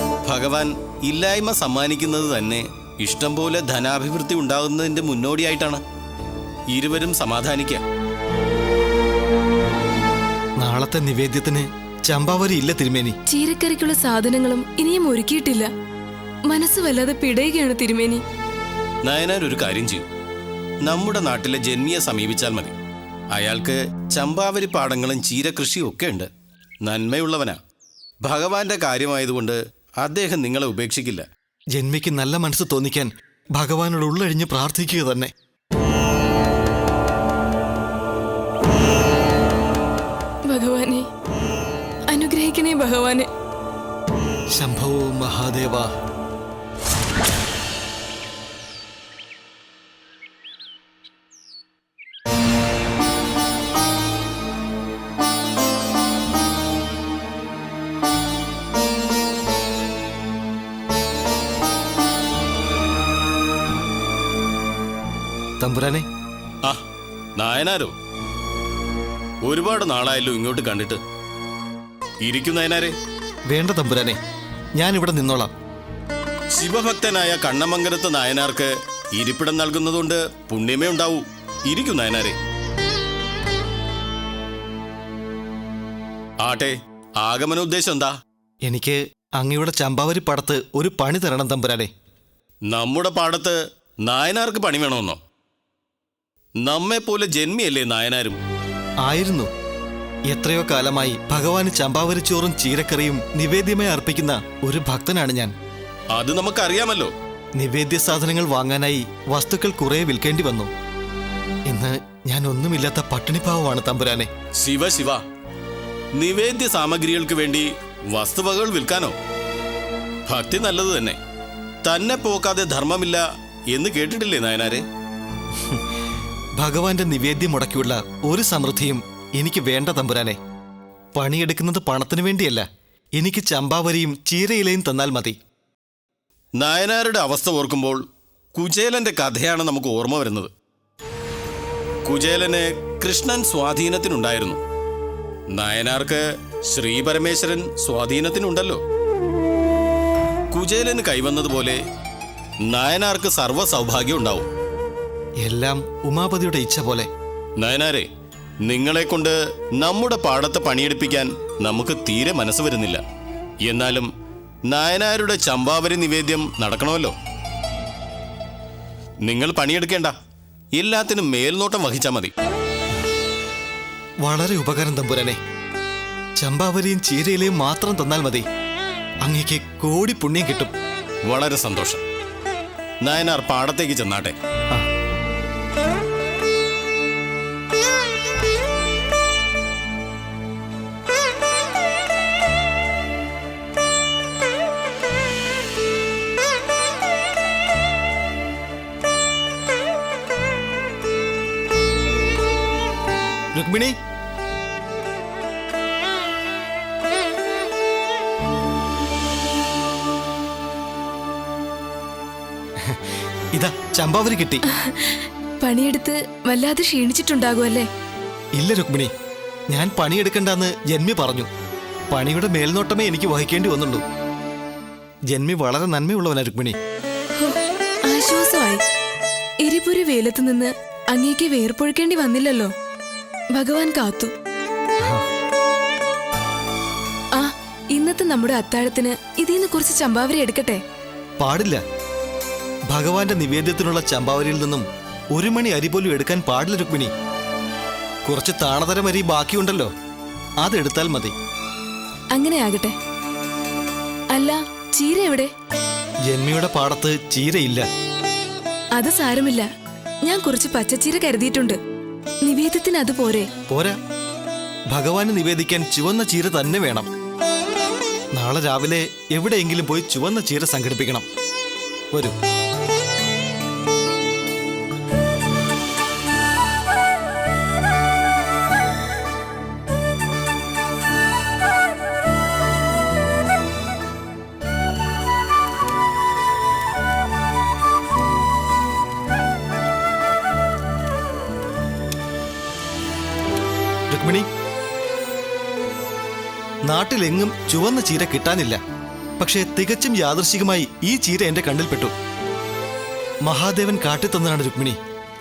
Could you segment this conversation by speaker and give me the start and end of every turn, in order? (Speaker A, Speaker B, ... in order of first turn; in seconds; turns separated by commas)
Speaker A: 0.3-5.8, Speaker A: 6.7-7.8, Speaker B: 10.6-13.2, Speaker C: 13.3-15.7, Speaker C: 16.5-18.2, Speaker A: 19.1-20.1, Speaker A: 20.9-22.8, Speaker A: 23.3-26.3, Speaker A: 26.9-27.6, Speaker A: 28.2-31.3, Speaker B: 31.7-35.3, Speaker C: 40.5-41.1, Speaker C: 42.1-43.3, Speaker B: 44.5-45.9, Speaker B: 65.6-66.1, Speaker A: 67.4-67.9, Speaker A: 69.5-71.0, Speaker A: 72.2-72.9, Speaker B: 73.5-74.2, Speaker B: 74.8-75.5, Speaker A: 76.5-82.4, Speaker A: 86.4-88.1, Speaker B: 88.6-91.9, Speaker A: 92.7-95.2, Speaker A: 96.6-98.4, Speaker B: 99.0-99.5, Speaker B: 100.3-105.5, Speaker A: 106.1-107.1, Speaker B: 107.6-110.7, Speaker B: 111.7-114.3, Speaker A: 114.6-115.2, Speaker A: 116.2-119.1, Speaker A: 120.3-121.2, Speaker A: 121.8-124.8, Speaker B: 125.5-125.8, Speaker B: 126.6-130.4, Speaker B: 131.2-135.4, Speaker A: 136.6-138.0, Speaker A: 138.5-140.5, Speaker A: 142.1-144.6, Speaker A: 145.5-148.8, Speaker A: 150.5-151.8, Speaker A: 152.7-154.5, Speaker B: 155.4-157.1, Speaker A: 157.6-158.1, Speaker A: 158.7-163.0, Speaker A: 163.6-164.1, Speaker A: 164.7-167.1, Speaker A: 169.2-170.1, Speaker A: 170.8-172.3, Speaker B: 174.2-175.4, Speaker B: 176.4-178.5, Speaker B: 179.2-180.7, Speaker A: 181.3-182.0, Speaker A: 183.0-184.3, Speaker B: 203.5-204.0, Speaker B: 212.8-214.6, Speaker C: 214.7-217.9, Speaker B: 218.6-219.1, Speaker B: 219.7-221.5, Speaker B: 222.1-224.0, Speaker B: 225.3-226.8, Speaker C: 227.4-228.8, Speaker C: 229.6-232.7, Speaker C: 233.6-234.3, Speaker B: 235.0-235.2, Speaker C: 237.4-240.8, Speaker B: 241.4-241.8, Speaker B: 242.9-247.1, Speaker B: 248.2-249.9, Speaker B: 250.6-251.3, Speaker C: 252.3-253.0, Speaker C: 254.3-255.5, Speaker B: 256.3-257.9, Speaker C: 259.0-259.7, Speaker C: 260.2-261.8, Speaker C: 262.4-263.5, Speaker B: 263.7-264.0, Speaker B: 264.9-267.1, Speaker B: 268.4-271.3, Speaker B: 294.1-294.5, Speaker B: 296.9-298.8, Speaker B: 299.4-302.1, Speaker B: 303.4-305.0